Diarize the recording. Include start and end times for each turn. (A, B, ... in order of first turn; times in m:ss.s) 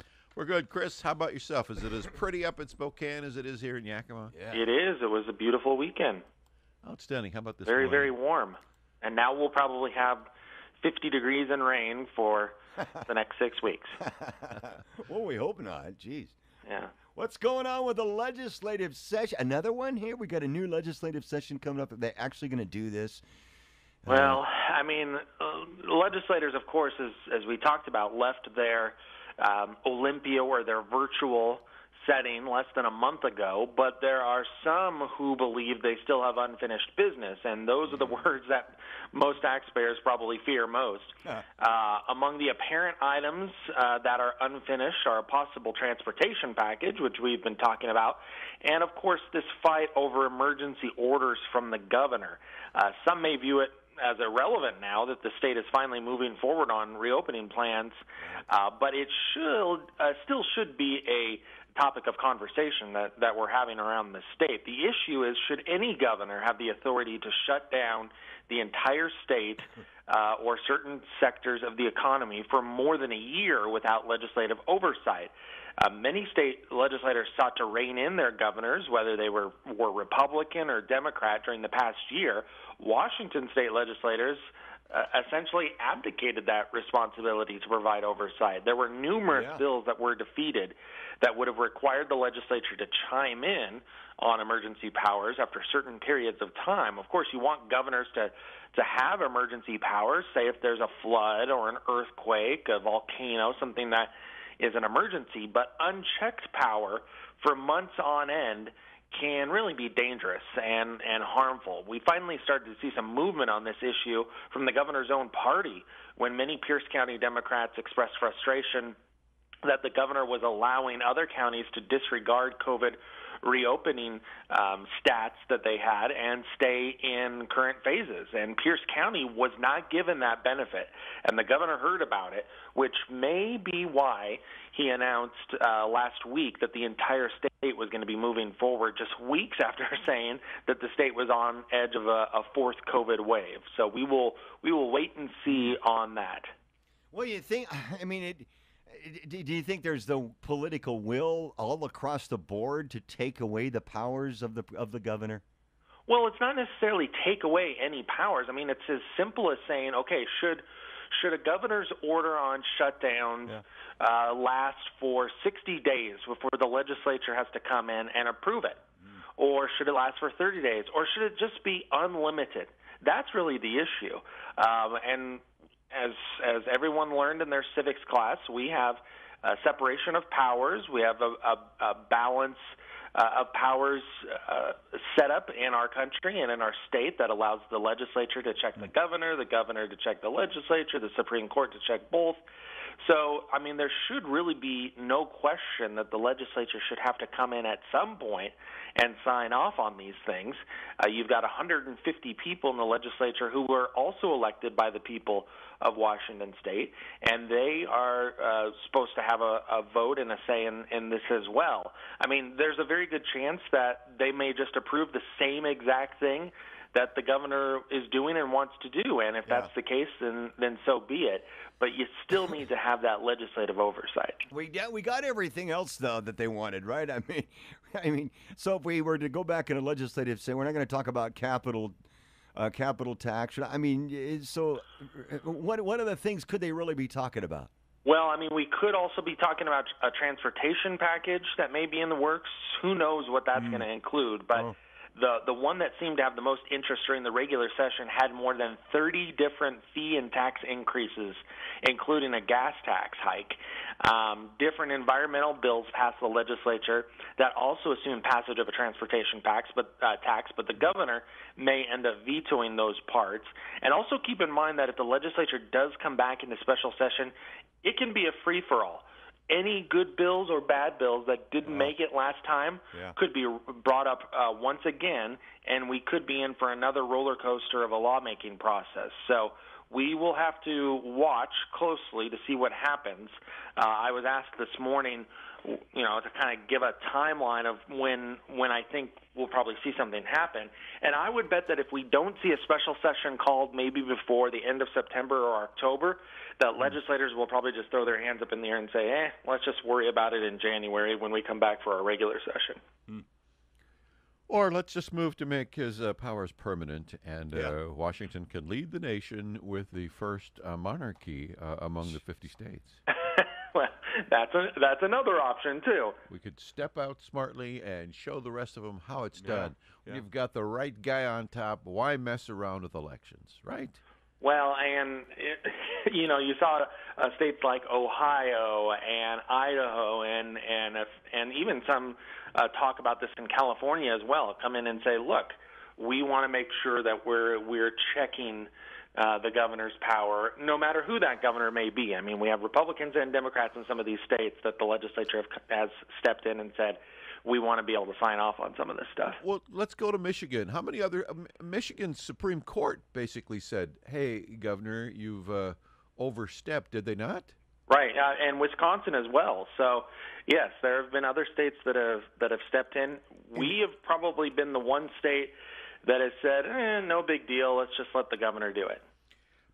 0:00.3-0:04.3 A
0:04.3-0:04.6 B
0:04.5-0:06.2 C
0:06.8-0:08.1 A
0:07.6-0:10.3 C
0:10.8-0:14.0 C
0:14.0-0:16.4 B
0:16.6-0:16.9 C
0:17.1-0:23.2 B
0:24.0-0:24.4 B
0:24.1-1:59.0 C
1:29.3-1:29.6 B
1:59.6-2:26.5 C
2:27.1-2:35.4 B
2:36.1-2:48.8 C
2:49.4-3:12.4 C
3:13.0-3:44.4 C
3:44.5-3:51.9 B
3:52.5-3:57.7 B
3:58.0-5:02.8 C
4:03.6-4:03.8 B
4:31.7-4:31.9 B
5:04.5-5:13.0 A
5:13.1-5:16.2 C
5:16.3-5:24.0 A
5:19.4-5:20.2 B
5:24.4-5:49.4 C
5:49.4-5:57.5 A
5:57.9-6:09.0 C